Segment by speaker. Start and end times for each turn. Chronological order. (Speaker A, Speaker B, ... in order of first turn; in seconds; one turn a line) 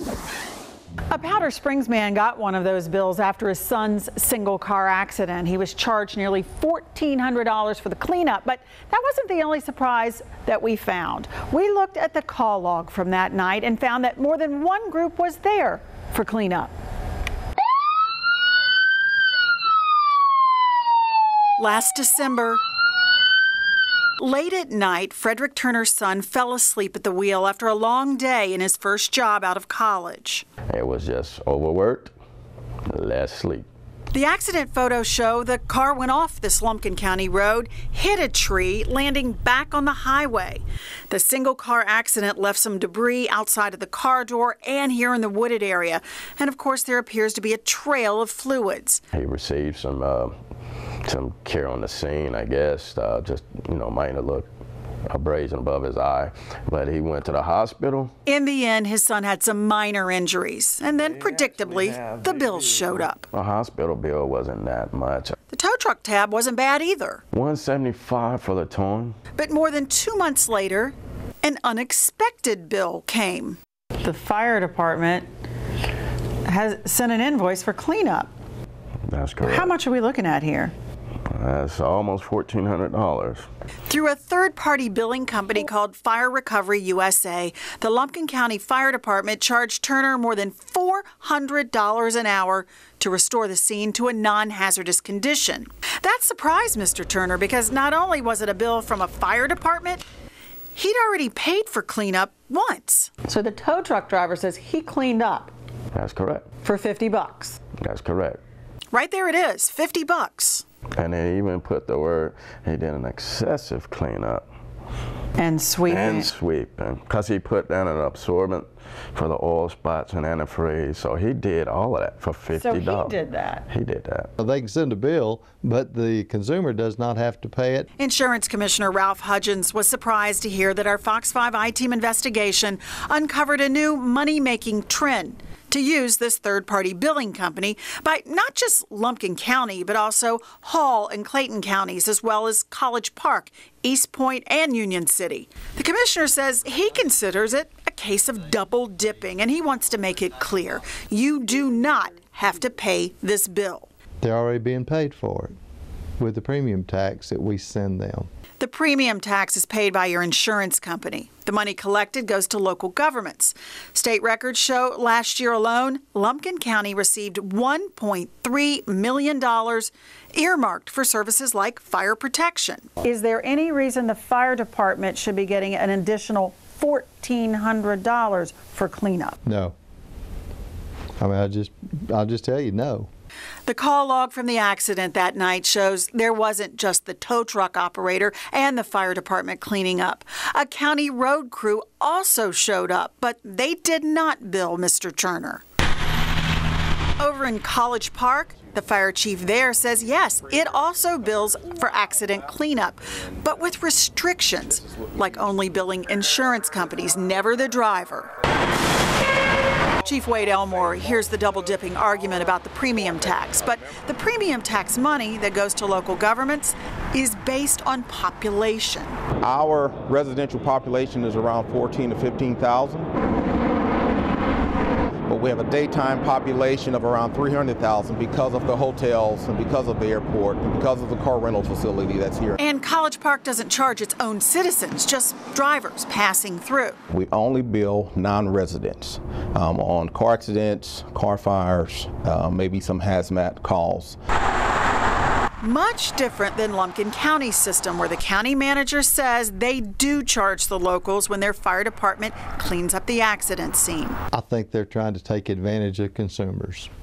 Speaker A: 1.1-16.7
Speaker A: 21.6-22.6
Speaker A: 24.2-30.4
Speaker B: 30.7-32.1
Speaker B: 32.9-33.7
Speaker A: 34.1-49.0
Speaker B: 49.1-50.4
Speaker B: 51.0-54.5
Speaker B: 55.1-58.1
Speaker A: 58.3-63.3
Speaker B: 61.0-65.4
Speaker A: 65.5-67.2
Speaker B: 67.3-69.2
Speaker A: 69.4-75.3
Speaker A: 76.5-78.3
Speaker B: 79.1-79.8
Speaker A: 79.4-80.7
Speaker B: 81.3-83.5
Speaker A: 83.9-100.0
Speaker A: 100.8-105.5
Speaker B: 105.9-106.4
Speaker A: 106.6-107.6
Speaker B: 107.8-108.4
Speaker A: 108.9-110.7
Speaker B: 111.0-114.5
Speaker A: 115.4-116.3
Speaker B: 115.9-123.2
Speaker A: 122.5-123.7
Speaker B: 123.7-124.3
Speaker C: 124.4-127.9
Speaker A: 128.0-153.9
Speaker C: 154.2-155.6
Speaker C: 156.2-158.3
Speaker A: 158.6-179.4
Speaker C: 179.4-179.8
Speaker C: 181.2-183.1
Speaker A: 183.7-195.6
Speaker A: 197.2-208.3
Speaker D: 204.7-205.5
Speaker A: 210.0-219.2
Speaker D: 213.6-214.0
Speaker D: 219.4-223.1
Speaker D: 225.3-232.6
Speaker A: 232.6-237.0
Speaker D: 237.1-244.2
Speaker A: 245.6-254.2
Speaker C: 254.3-256.9